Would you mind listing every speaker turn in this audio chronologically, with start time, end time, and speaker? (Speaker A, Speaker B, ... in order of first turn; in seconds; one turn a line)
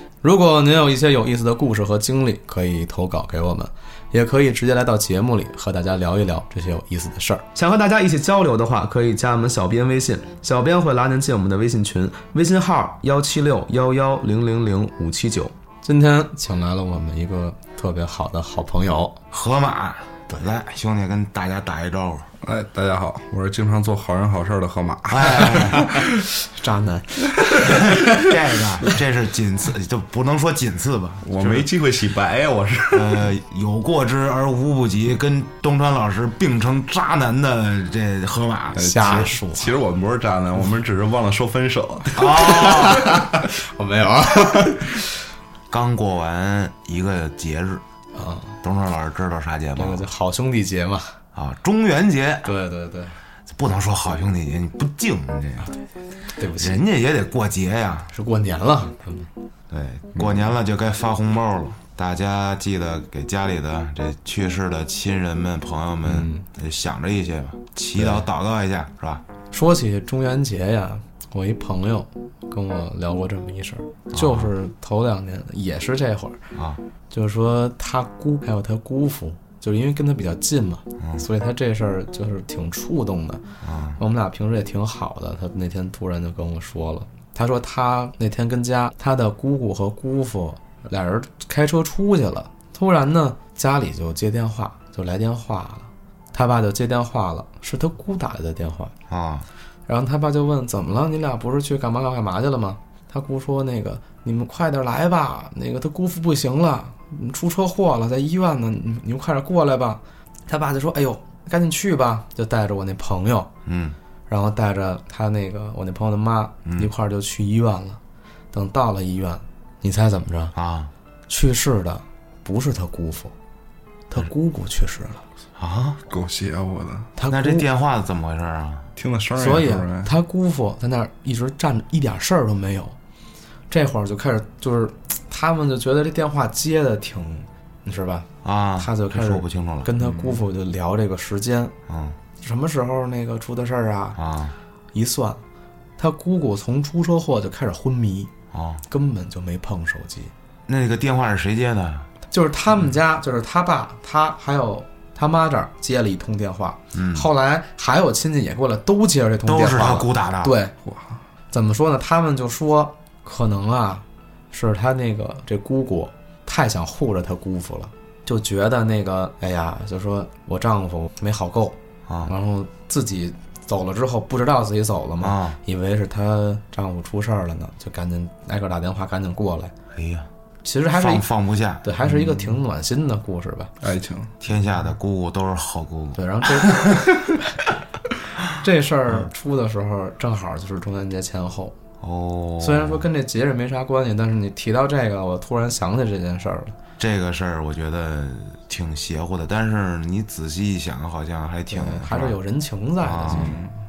Speaker A: 0.2-19.2
Speaker B: 19.3-22.3
Speaker C: 22.4-26.3
Speaker B: 25.1-26.0
Speaker A: 26.6-27.9
Speaker B: 27.7-31.7
Speaker C: 31.2-33.3
Speaker B: 32.9-39.3
Speaker C: 38.8-43.1
Speaker A: 38.8-39.7
Speaker B: 42.2-43.2
Speaker A: 42.3-45.1
Speaker B: 45.7-47.8
Speaker A: 48.1-48.5
Speaker B: 48.6-50.0
Speaker A: 49.8-51.2
Speaker B: 51.3-52.5
Speaker A: 52.5-53.1
Speaker B: 53.5-55.7
Speaker A: 56.3-56.8
Speaker B: 56.6-58.1
Speaker A: 58.1-59.3
Speaker B: 59.7-69.2
Speaker A: 66.0-66.5
Speaker A: 69.5-76.4
Speaker B: 74.1-74.5
Speaker B: 76.5-76.8
Speaker A: 77.1-83.4
Speaker B: 83.6-84.0
Speaker A: 84.0-98.9
Speaker B: 99.1-99.5
Speaker A: 99.9-113.5
Speaker B: 113.7-114.0
Speaker A: 114.3-118.0
Speaker B: 116.7-116.9
Speaker A: 118.5-120.5
Speaker B: 120.5-120.9
Speaker A: 121.3-123.3
Speaker A: 124.1-125.2
Speaker B: 125.6-126.0
Speaker C: 126.1-127.1
Speaker A: 127.2-127.7
Speaker B: 127.3-128.9
Speaker C: 129.0-130.1
Speaker A: 129.4-132.9
Speaker A: 133.7-138.3
Speaker B: 138.4-139.9
Speaker A: 138.8-141.7
Speaker C: 140.0-140.4
Speaker B: 141.9-142.2
Speaker A: 142.4-144.2
Speaker B: 144.2-144.6
Speaker A: 144.9-145.4
Speaker A: 146.0-148.3
Speaker B: 148.5-148.8
Speaker A: 148.9-150.3
Speaker B: 150.7-152.1
Speaker A: 152.3-160.7
Speaker B: 156.9-157.3
Speaker B: 159.4-160.6
Speaker C: 160.8-161.2
Speaker A: 161.5-179.7
Speaker B: 175.2-175.6
Speaker B: 179.9-180.3
Speaker A: 180.6-181.3
Speaker B: 180.9-181.8
Speaker A: 181.8-183.7
Speaker C: 183.8-184.3
Speaker B: 184.4-187.0
Speaker A: 186.2-187.6
Speaker A: 188.5-191.7
Speaker B: 192.0-193.0
Speaker A: 192.6-196.8
Speaker B: 197.0-202.4
Speaker A: 201.7-203.6
Speaker B: 203.0-203.6
Speaker C: 203.3-203.7